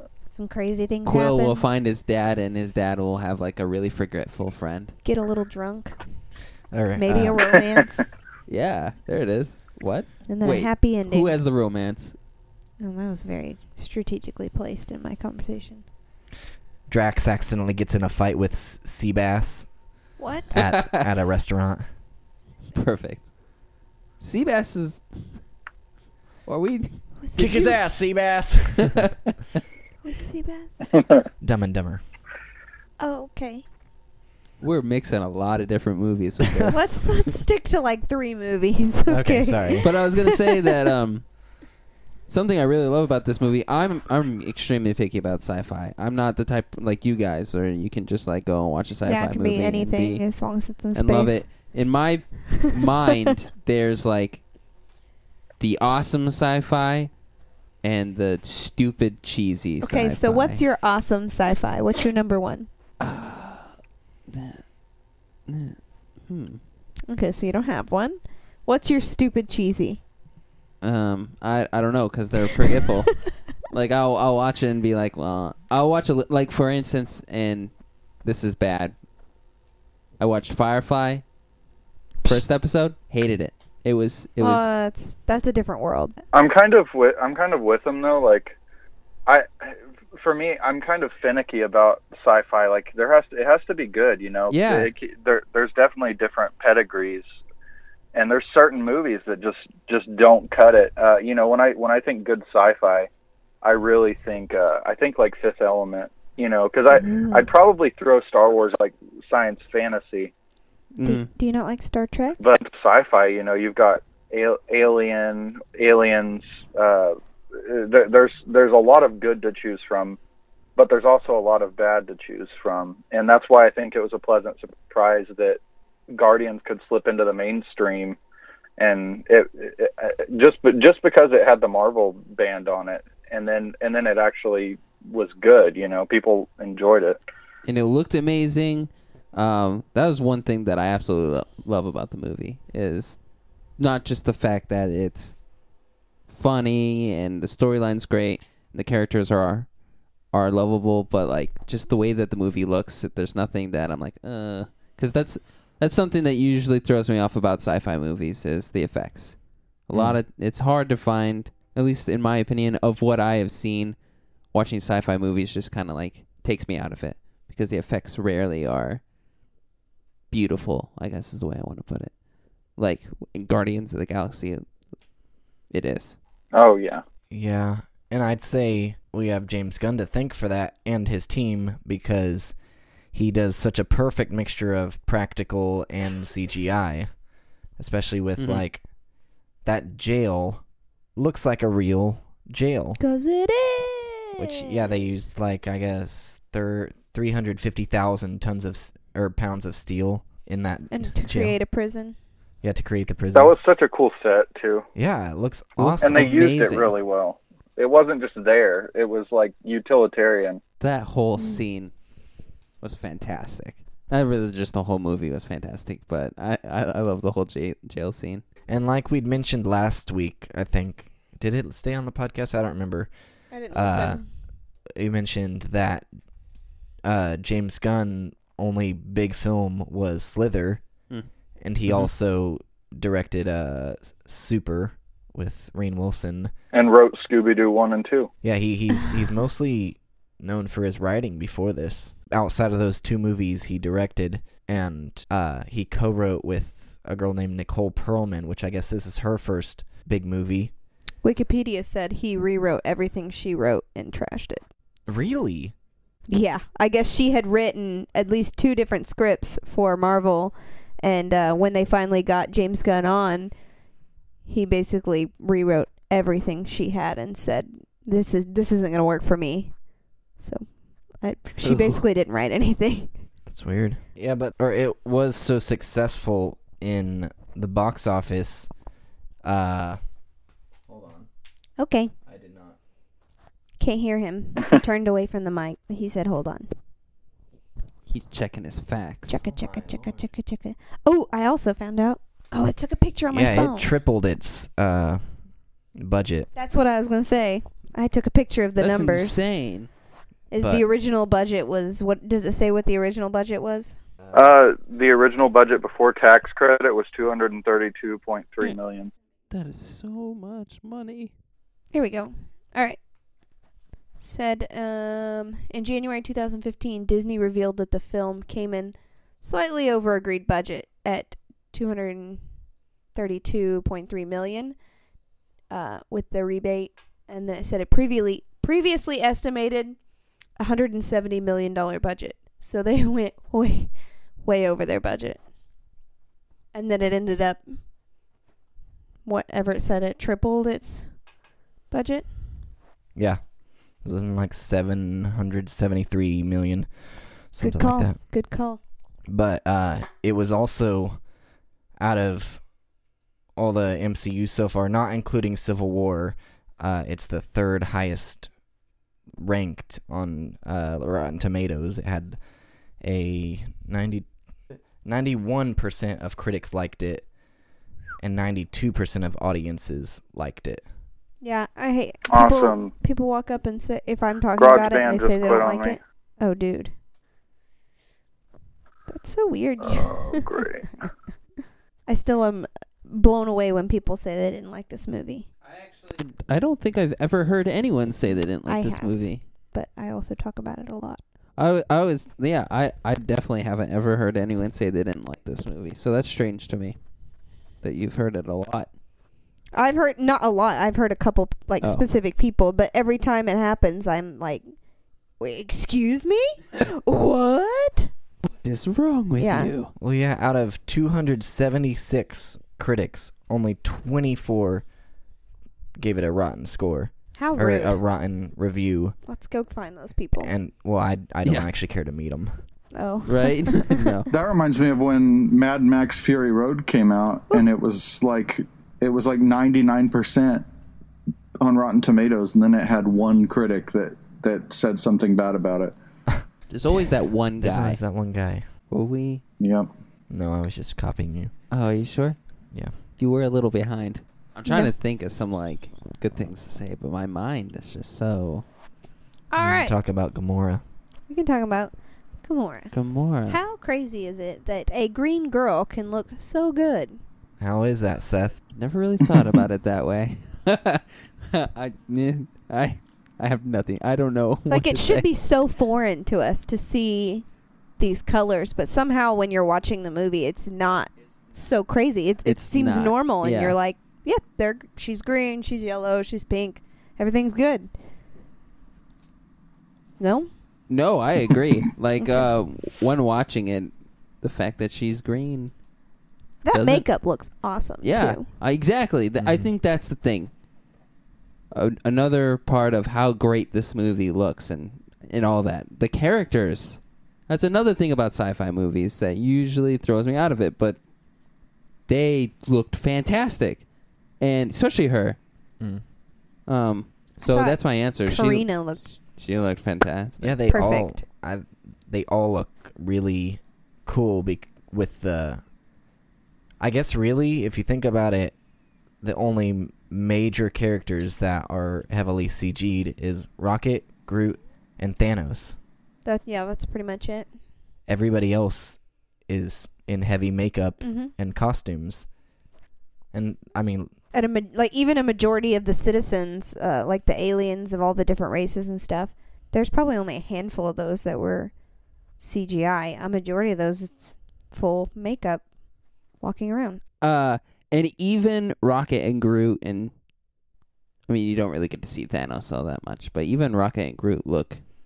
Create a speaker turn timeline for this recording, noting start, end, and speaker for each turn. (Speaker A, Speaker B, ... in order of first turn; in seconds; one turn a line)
Speaker A: 0.3-1.6
Speaker B: 1.1-5.0
Speaker A: 5.0-6.0
Speaker C: 6.7-7.5
Speaker A: 7.0-8.1
Speaker D: 7.6-7.8
Speaker B: 8.5-12.2
Speaker A: 10.3-11.3
Speaker A: 12.8-15.8
Speaker C: 16.9-19.7
Speaker A: 20.2-20.5
Speaker C: 20.5-21.9
Speaker B: 20.5-21.1
Speaker B: 22.7-23.3
Speaker B: 24.2-25.4
Speaker B: 26.5-27.7
Speaker A: 27.2-27.8
Speaker C: 27.4-29.1
Speaker B: 28.8-29.3
Speaker A: 30.0-30.8
Speaker C: 31.4-32.0
Speaker A: 33.0-33.7
Speaker B: 34.6-37.3
Speaker A: 36.7-40.8
Speaker C: 39.1-39.9
Speaker B: 39.8-41.3
Speaker B: 42.3-50.3
Speaker A: 49.0-51.4
Speaker B: 50.9-54.4
Speaker B: 55.6-57.1
Speaker B: 57.8-60.6
Speaker A: 59.8-62.7
Speaker B: 63.0-63.7
Speaker B: 64.3-64.6
Speaker B: 65.5-66.6
Speaker A: 67.1-70.0
Speaker B: 70.8-77.7
Speaker B: 78.2-78.9
Speaker B: 80.2-81.2
Speaker B: 82.2-84.7
Speaker A: 84.4-86.2
Speaker D: 86.3-88.6
Speaker D: 89.3-97.3
Speaker B: 94.5-94.9
Speaker D: 98.1-103.1
Speaker D: 103.6-110.3
Speaker A: 107.0-107.5
Speaker B: 111.0-111.3
Speaker A: 111.0-112.4
Speaker D: 112.4-120.2
Speaker D: 120.8-125.6
Speaker D: 126.1-128.2
Speaker D: 128.8-137.2
Speaker B: 137.7-143.2
Speaker B: 143.8-145.4
Speaker B: 146.3-149.7
Speaker B: 150.3-159.4
Speaker B: 159.9-164.0
Speaker C: 159.9-160.2
Speaker B: 164.5-169.0
Speaker B: 170.3-172.1
Speaker B: 172.8-174.6
Speaker B: 175.7-176.2
Speaker D: 176.5-177.0
Speaker C: 177.3-182.6
Speaker C: 183.1-187.1
Speaker C: 187.8-188.8
Speaker B: 188.4-188.6
Speaker C: 189.7-190.6
Speaker C: 191.2-193.0
Speaker A: 193.0-195.2
Speaker C: 194.4-201.6
Speaker A: 200.9-202.2
Speaker C: 202.6-203.5
Speaker D: 203.3-204.8
Speaker C: 204.9-206.9
Speaker B: 205.8-206.6
Speaker D: 206.0-210.6
Speaker B: 210.8-211.9
Speaker A: 211.4-211.6
Speaker B: 212.8-218.4
Speaker C: 218.7-223.1
Speaker A: 223.5-224.3
Speaker C: 223.7-224.2
Speaker C: 225.0-226.1
Speaker C: 227.0-230.8
Speaker C: 231.6-236.5
Speaker D: 236.7-238.3
Speaker C: 238.4-250.7
Speaker A: 251.2-254.6
Speaker C: 255.1-255.7
Speaker A: 256.3-263.5
Speaker A: 264.5-269.7
Speaker A: 270.4-273.1
Speaker B: 271.6-272.0
Speaker C: 273.5-278.7
Speaker C: 279.4-280.0
Speaker C: 280.9-281.3
Speaker A: 281.8-282.1
Speaker C: 282.3-282.8
Speaker A: 283.8-286.7
Speaker B: 288.1-289.4
Speaker A: 289.3-293.9
Speaker C: 289.4-290.3
Speaker C: 293.3-295.2
Speaker C: 296.0-296.5
Speaker A: 296.6-299.4
Speaker B: 298.8-299.9
Speaker A: 300.5-304.0
Speaker C: 300.6-300.9
Speaker C: 304.2-304.6
Speaker D: 304.3-309.1
Speaker B: 309.5-311.3
Speaker A: 311.9-313.0
Speaker A: 314.2-322.4
Speaker A: 323.1-324.8
Speaker A: 325.7-330.0
Speaker A: 330.6-335.4
Speaker A: 336.7-337.8
Speaker A: 339.2-341.1
Speaker A: 341.9-342.3
Speaker C: 343.1-343.4
Speaker C: 344.0-346.9
Speaker C: 347.5-348.2
Speaker A: 347.6-348.8
Speaker C: 349.3-351.2
Speaker C: 352.0-352.6
Speaker C: 353.6-358.5
Speaker C: 359.4-362.4
Speaker C: 363.0-364.3
Speaker C: 365.0-367.3
Speaker C: 368.2-370.8
Speaker A: 371.4-376.9
Speaker D: 372.3-372.9
Speaker D: 374.6-376.0
Speaker A: 379.1-381.1
Speaker D: 379.8-380.9
Speaker A: 382.1-385.5
Speaker B: 385.6-389.4
Speaker A: 388.6-391.2
Speaker B: 391.6-397.0
Speaker B: 397.8-398.9
Speaker A: 399.7-404.7
Speaker A: 405.4-408.1
Speaker B: 408.6-409.9
Speaker A: 409.4-409.7
Speaker C: 410.0-414.9
Speaker C: 416.0-419.2
Speaker A: 417.4-418.0
Speaker A: 419.3-420.5
Speaker C: 420.4-422.5
Speaker A: 422.9-424.1
Speaker B: 423.2-424.3
Speaker E: 424.3-430.6
Speaker E: 431.6-435.9
Speaker B: 436.7-438.0
Speaker C: 437.6-438.6
Speaker B: 438.9-439.4
Speaker E: 439.6-439.9
Speaker C: 440.3-441.5
Speaker B: 441.7-442.4
Speaker B: 443.2-448.6
Speaker A: 444.7-444.9
Speaker A: 449.5-449.9
Speaker C: 449.6-450.8
Speaker A: 451.3-452.9
Speaker B: 452.9-453.6
Speaker A: 453.5-457.2
Speaker C: 457.6-458.6
Speaker B: 458.8-465.3
Speaker A: 464.7-467.4
Speaker A: 468.0-477.9
Speaker B: 472.4-473.8
Speaker A: 480.2-480.5
Speaker B: 480.9-483.9
Speaker B: 484.4-485.7
Speaker A: 486.6-488.5
Speaker B: 486.7-487.1
Speaker B: 488.0-490.5
Speaker C: 489.4-489.7
Speaker B: 491.7-501.0
Speaker B: 502.1-503.8
Speaker B: 504.4-505.4
Speaker B: 506.7-508.7
Speaker A: 507.4-509.0
Speaker B: 509.2-510.6
Speaker C: 510.4-515.6
Speaker A: 510.7-511.2
Speaker C: 516.8-518.6
Speaker C: 519.2-525.8
Speaker A: 526.2-527.5
Speaker C: 528.1-532.3
Speaker A: 531.0-531.3
Speaker C: 533.3-534.1
Speaker A: 534.3-541.7
Speaker A: 542.4-545.7
Speaker A: 546.4-547.0
Speaker B: 547.2-550.1
Speaker B: 551.3-554.8